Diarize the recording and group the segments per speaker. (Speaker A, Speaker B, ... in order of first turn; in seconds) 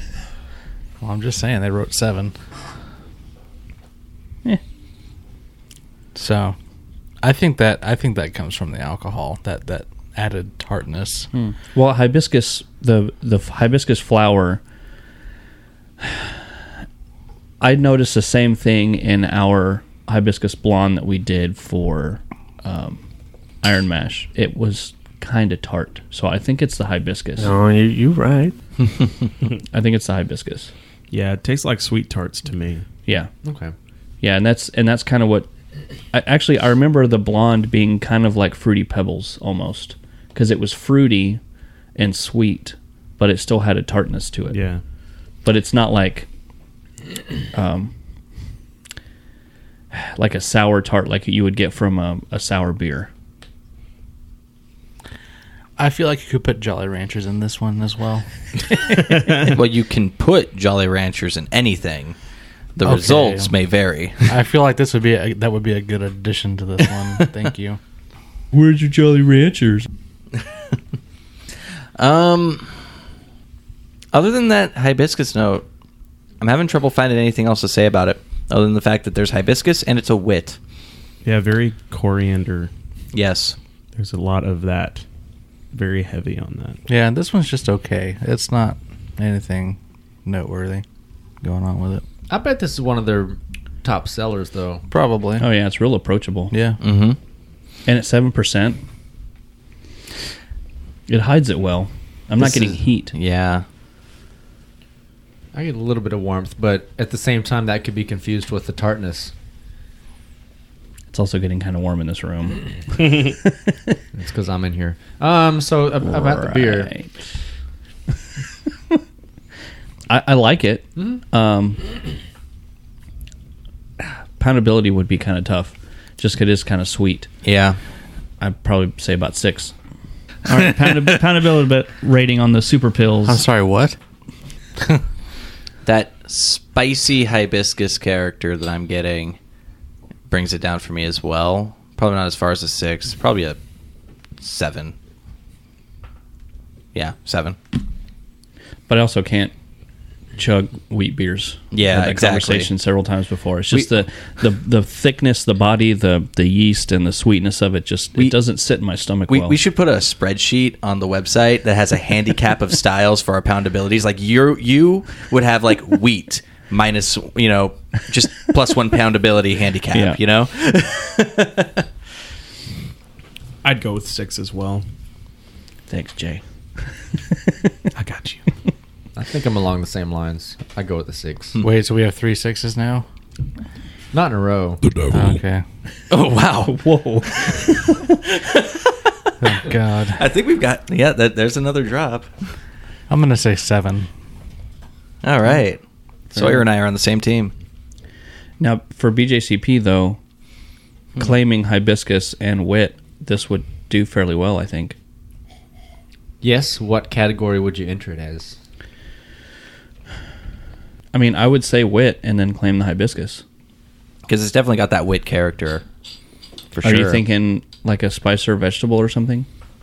Speaker A: 1.0-2.3, 6.1-6.5, 7.2-11.3, 55.8-59.5, 62.8-63.5, 64.2-67.8, 86.9-90.8, 91.4-92.0, 94.9-95.5, 96.5-96.8, 133.2-134.0, 181.6-183.0, 185.1-185.6, 189.4-190.2, 193.1-194.1
Speaker B: 11.3-14.6, 16.0-16.4, 17.6-23.0, 23.6-27.5, 29.7-30.7, 34.2-35.5, 36.1-41.4, 42.0-44.6, 45.4-46.3, 47.5-47.9, 49.9-53.1, 68.5-69.9, 95.4-96.5, 97.8-98.8, 101.1-103.1, 111.1-113.9, 116.1-117.1, 120.1-121.8, 124.4-127.3, 128.4-129.7, 130.4-133.4, 148.9-149.5, 150.4-159.6, 169.9-170.2, 175.9-176.4, 186.7-188.1, 198.6-200.2, 201.2-204.9, 211.1-213.4, 216.8-219.5
Speaker C: 31.1-32.8, 44.5-44.8, 81.2-82.7, 84.0-85.0, 85.7-86.8, 173.6-174.8, 177.9-178.4
Speaker D: 33.4-33.7, 92.3-94.8, 105.5-109.3, 114.1-116.9, 179.2-181.6, 184.1-184.8, 206.4-208.6
Speaker E: 59.3-62.1, 62.8-64.3, 72.0-72.7, 74.1-75.6, 76.4-80.6, 83.1-83.6, 96.8-97.2, 102.4-103.6, 127.4-127.8, 135.8-139.4, 140.3-143.6, 144.4-144.9, 146.9-147.6, 151.7-152.7, 159.3-171.8, 186.1-186.8, 190.1-192.3, 195.2-195.8, 196.3-197.5, 214.3-215.8, 216.7-217.2